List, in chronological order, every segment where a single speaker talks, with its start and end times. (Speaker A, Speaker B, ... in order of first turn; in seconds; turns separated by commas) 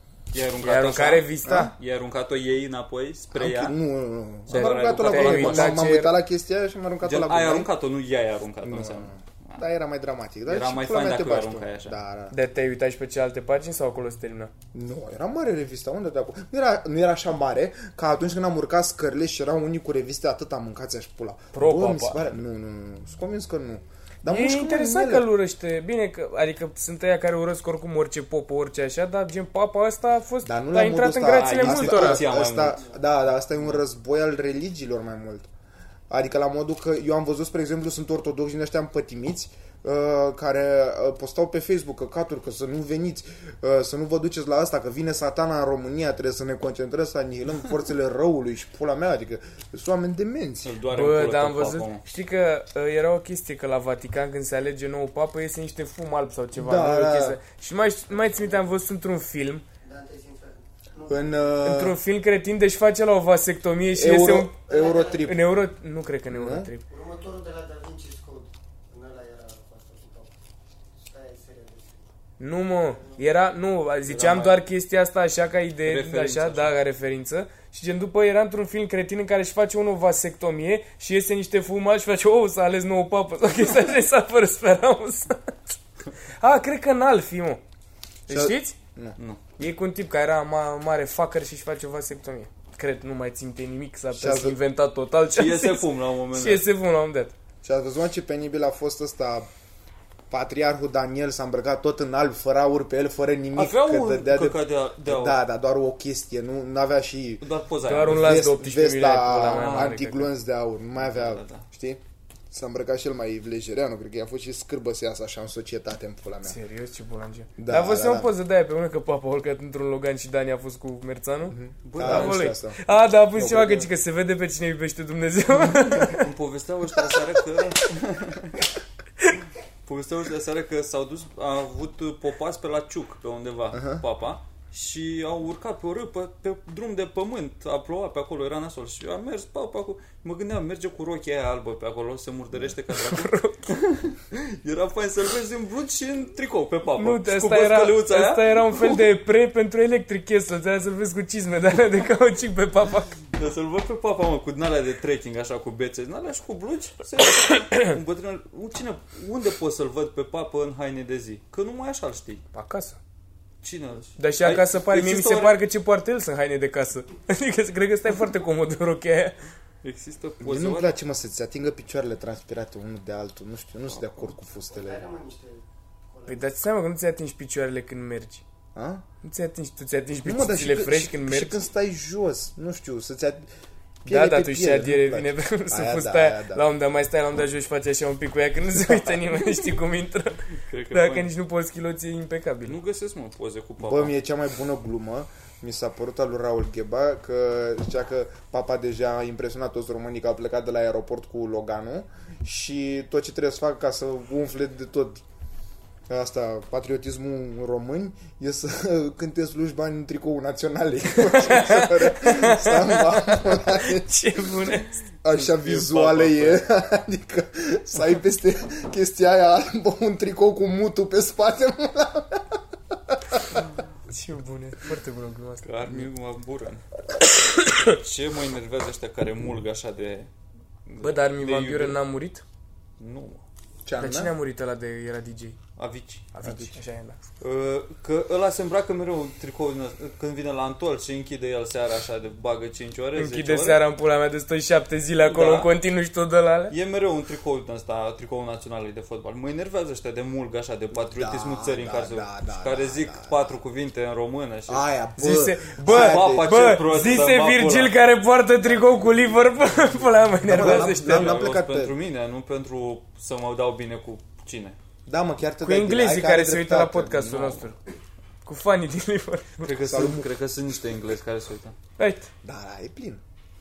Speaker A: 0.3-3.7, Speaker B: 0.6-1.7, Speaker C: 1.4-1.7, Speaker C: 3.3-7.7, Speaker A: 4.5-5.9, Speaker B: 4.5-6.2, Speaker A: 7.0-9.6, Speaker C: 8.6-12.3, Speaker A: 10.5-11.9, Speaker B: 12.3-14.5, Speaker C: 14.7-25.3, Speaker B: 21.5-22.3, Speaker B: 24.2-32.2, Speaker C: 30.4-35.5, Speaker A: 31.3-32.8, Speaker D: 32.6-33.0, Speaker C: 36.1-50.7, Speaker A: 50.6-52.0, Speaker B: 50.9-59.6, Speaker C: 56.5-57.4, Speaker D: 59.8-61.5, Speaker C: 61.1-62.0, Speaker B: 61.6-64.5, Speaker C: 63.9-65.4, Speaker D: 64.7-65.3, Speaker B: 65.2-66.8, Speaker C: 66.3-66.7, Speaker D: 66.9-70.3, Speaker D: 71.0-72.1, Speaker B: 72.4-85.6, Speaker D: 72.8-73.2, Speaker A: 74.1-74.6, Speaker A: 75.8-76.7, Speaker B: 86.2-87.6, Speaker B: 88.3-88.8, Speaker C: 88.3-89.2, Speaker B: 89.6-97.3, Speaker C: 94.1-94.6, Speaker A: 95.3-96.7, Speaker C: 97.6-99.5, Speaker C: 100.3-107.5, Speaker A: 103.5-105.4, Speaker A: 107.4-108.4, Speaker B: 107.8-110.3, Speaker C: 108.0-116.5, Speaker A: 109.4-109.9, Speaker A: 111.0-111.6, Speaker B: 116.4-126.3, Speaker C: 117.6-118.3, Speaker C: 121.5-122.8, Speaker A: 121.8-122.4, Speaker C: 123.3-123.9, Speaker A: 126.0-128.6, Speaker A: 129.8-149.1, Speaker C: 133.7-134.0, Speaker B: 142.9-143.7, Speaker B: 147.0-153.1, Speaker A: 153.3-162.4, Speaker B: 157.6-157.9, Speaker B: 162.5-163.0, Speaker A: 163.6-165.6, Speaker B: 164.2-169.4, Speaker A: 169.8-170.9, Speaker C: 170.4-175.1, Speaker D: 174.7-176.5, Speaker B: 176.3-178.4, Speaker C: 178.7-179.0, Speaker B: 179.2-181.6, Speaker C: 180.2-183.5, Speaker C: 184.0-186.6, Speaker B: 184.1-192.8, Speaker A: 190.6-191.3, Speaker A: 192.6-194.1, Speaker C: 193.8-205.2, Speaker C: 206.1-214.1, Speaker B: 211.2-215.0, Speaker C: 215.2-223.6, Speaker A: 215.2-216.6, Speaker B: 224.1-225.7, Speaker A: 225.6-226.8, Speaker B: 227.3-227.9, Speaker A: 227.7-230.3, Speaker A: 230.8-232.0, Speaker B: 231.0-232.4, Speaker A: 233.0-233.4, Speaker C: 233.8-234.3, Speaker B: 234.0-235.6, Speaker A: 235.8-236.7, Speaker B: 236.3-237.2, Speaker A: 237.4-243.8, Speaker B: 243.2-246.7, Speaker A: 245.2-245.7, Speaker A: 246.7-254.8, Speaker C: 251.0-253.5, Speaker C: 254.7-256.6, Speaker B: 255.2-261.4, Speaker A: 255.8-257.9, Speaker C: 260.4-261.9, Speaker A: 260.5-264.8, Speaker C: 265.1-267.6, Speaker B: 265.6-267.8, Speaker B: 268.4-269.7, Speaker A: 269.6-271.7, Speaker C: 269.8-270.3, Speaker B: 272.0-272.3, Speaker C: 272.4-273.2